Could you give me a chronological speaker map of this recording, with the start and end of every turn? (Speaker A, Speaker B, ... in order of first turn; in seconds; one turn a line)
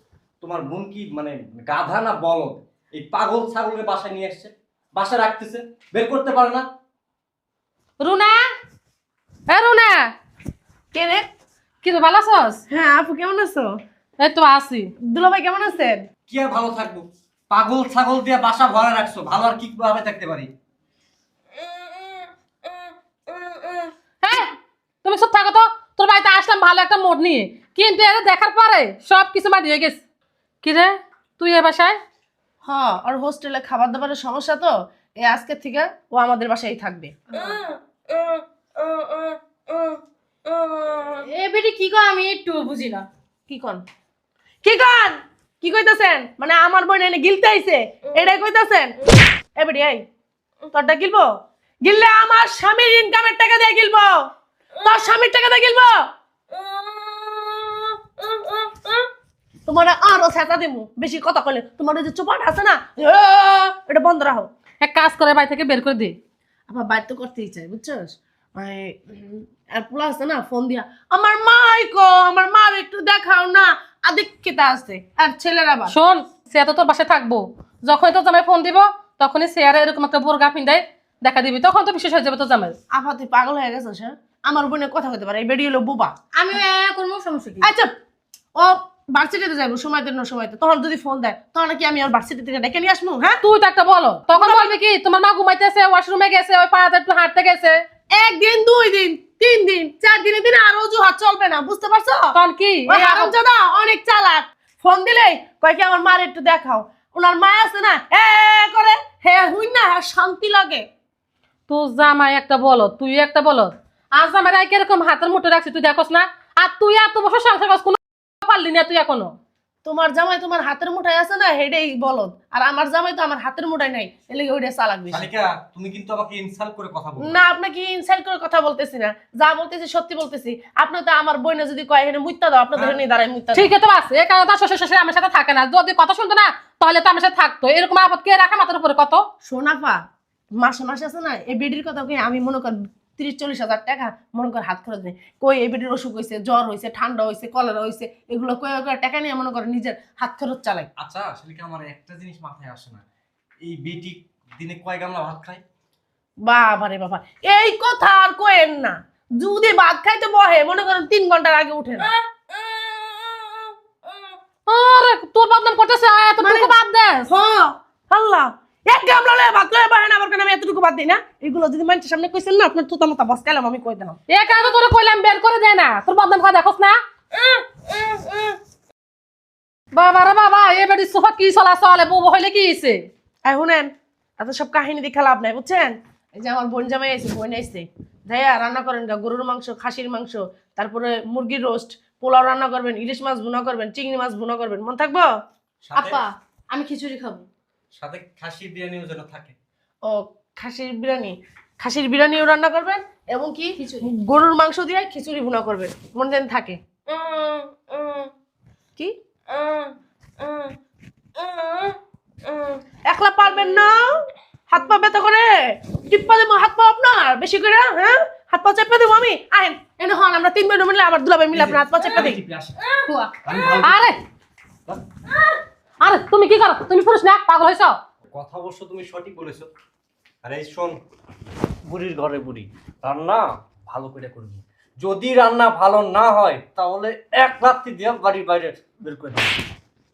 Speaker A: 0.4-6.7
Speaker B: 8.0-8.5
Speaker B: 9.5-10.1
Speaker C: 10.9-11.2
Speaker B: 11.8-12.6
Speaker C: 12.7-13.7
Speaker B: 14.2-14.9
Speaker C: 15.0-16.0
Speaker A: 16.3-20.5
Speaker C: 23.4-23.8
Speaker B: 24.2-24.5
Speaker B: 25.0-30.0
Speaker B: 30.6-32.0
Speaker C: 32.6-37.6
Speaker D: 37.4-43.1
Speaker C: 43.5-43.8
Speaker C: 44.6-48.9
Speaker C: 49.5-50.0
Speaker C: 50.7-51.3
Speaker C: 51.8-54.3
Speaker C: 54.8-56.0
Speaker D: 56.6-59.0
Speaker C: 59.7-64.5
Speaker B: 64.8-66.2
Speaker C: 66.7-76.0
Speaker B: 75.9-82.8
Speaker C: 82.9-86.1
Speaker D: 86.3-87.7
Speaker C: 87.6-87.9
Speaker C: 88.5-93.4
Speaker B: 93.4-97.8
Speaker C: 94.3-94.7
Speaker C: 98.1-102.3
Speaker B: 102.3-103.3
Speaker C: 102.9-110.8
Speaker B: 111.7-119.3
Speaker C: 119.8-125.3
Speaker A: 125.1-127.4
Speaker C: 127.2-133.7
Speaker B: 133.5-139.2
Speaker C: 139.4-140.0
Speaker C: 140.6-150.9
Speaker A: 151.0-153.0
Speaker A: 153.6-155.6
Speaker C: 156.4-162.1
Speaker D: 162.4-163.7
Speaker B: 164.7-167.3
Speaker C: 166.4-166.7
Speaker C: 167.3-174.2
Speaker B: 174.3-177.0
Speaker B: 179.9-183.0
Speaker C: 183.4-195.3
Speaker A: 195.8-196.2
Speaker D: 195.9-197.4
Speaker A: 197.9-199.5
Speaker C: 200.1-206.8
Speaker D: 203.8-204.1
Speaker D: 207.1-208.3
Speaker D: 209.5-210.7
Speaker D: 211.4-212.8
Speaker C: 213.0-222.4
Speaker A: 221.5-222.8
Speaker B: 223.1-224.2
Speaker A: 223.4-224.0
Speaker B: 226.0-228.0
Speaker A: 228.3-229.7
Speaker A: 230.4-231.0
Speaker A: 231.8-239.5